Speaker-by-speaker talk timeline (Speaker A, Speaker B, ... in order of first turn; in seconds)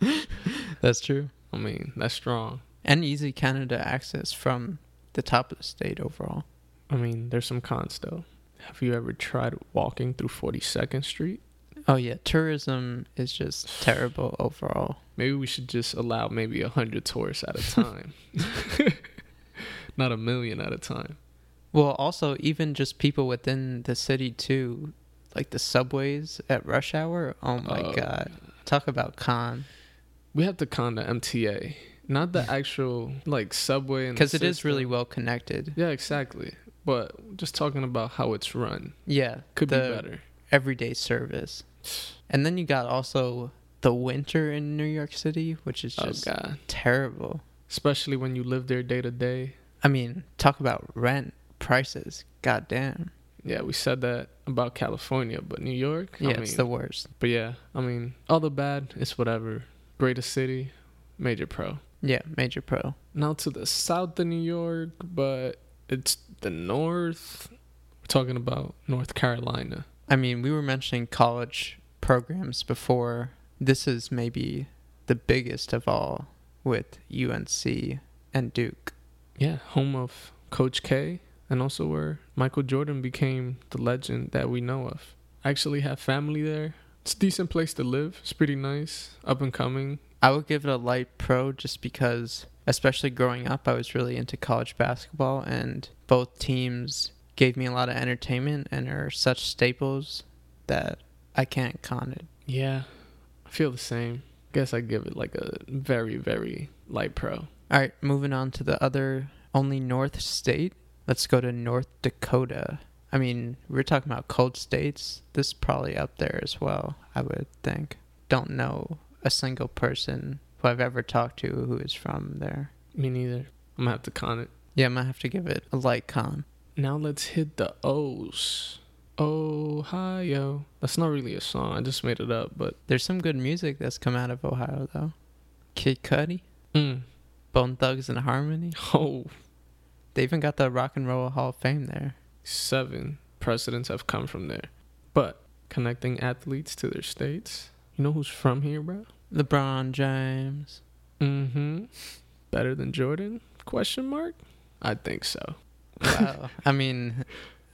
Speaker A: 0.5-1.3, 2.8-6.5, 11.9-15.0, 21.7-29.7, 34.2-35.8, 39.1-41.7, 42.3-47.4, 49.8-53.1, 56.2-57.1, 62.0-63.0, 70.1-78.9, 90.2-102.3, 107.7-122.7, 124.8-126.5, 132.9-135.1, 135.8-136.4, 137.5-138.8, 140.1-142.2, 149.3-150.8, 156.0-157.3
Speaker B: 1.5-2.6, 6.9-11.4, 15.2-21.2, 27.6-28.3, 30.3-34.9, 35.8-39.0, 39.5-40.2, 46.0-46.6, 47.7-49.6, 53.4-56.7, 57.2-61.8, 63.1-67.5, 68.0-69.9, 79.4-90.0, 102.5-102.9, 103.5-107.5, 122.9-124.5, 126.8-132.8, 136.7-137.1, 138.8-139.3, 142.4-149.1, 151.2-151.9, 152.5-156.3